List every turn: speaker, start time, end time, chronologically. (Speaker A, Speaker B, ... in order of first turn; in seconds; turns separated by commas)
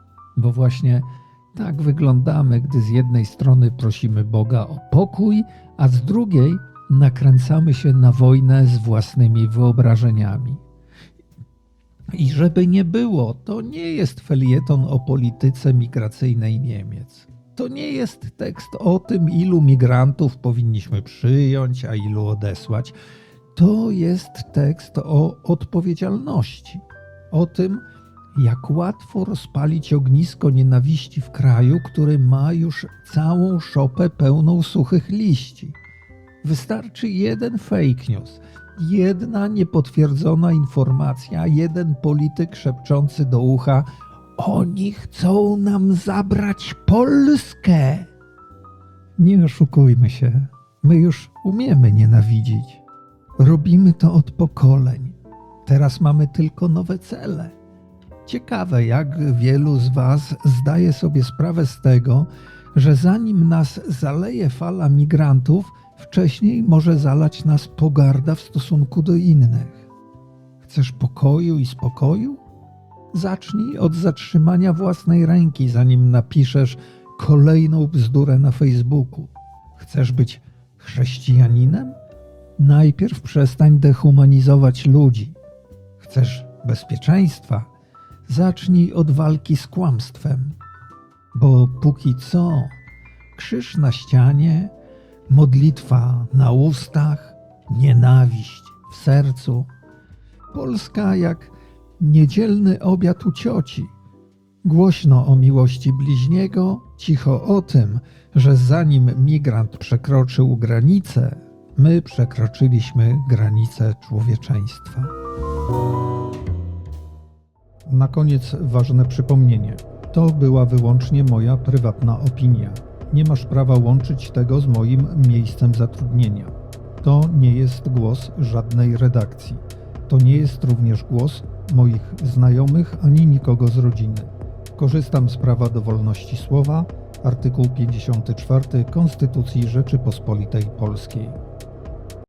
Speaker A: 0.3-10.6, Speaker A: 12.1-22.9, Speaker A: 23.5-27.8, Speaker A: 28.3-35.8, Speaker A: 36.4-48.1, Speaker A: 49.2-52.8, Speaker A: 53.4-57.5, Speaker A: 58.2-69.8, Speaker A: 70.6-72.4, Speaker A: 73.1-82.0, Speaker A: 82.6-85.4, Speaker A: 86.0-87.7, Speaker A: 88.3-90.5, Speaker A: 91.3-92.8, Speaker A: 93.3-94.7, Speaker A: 95.3-99.7, Speaker A: 100.5-103.9, Speaker A: 104.6-115.1, Speaker A: 117.8-141.4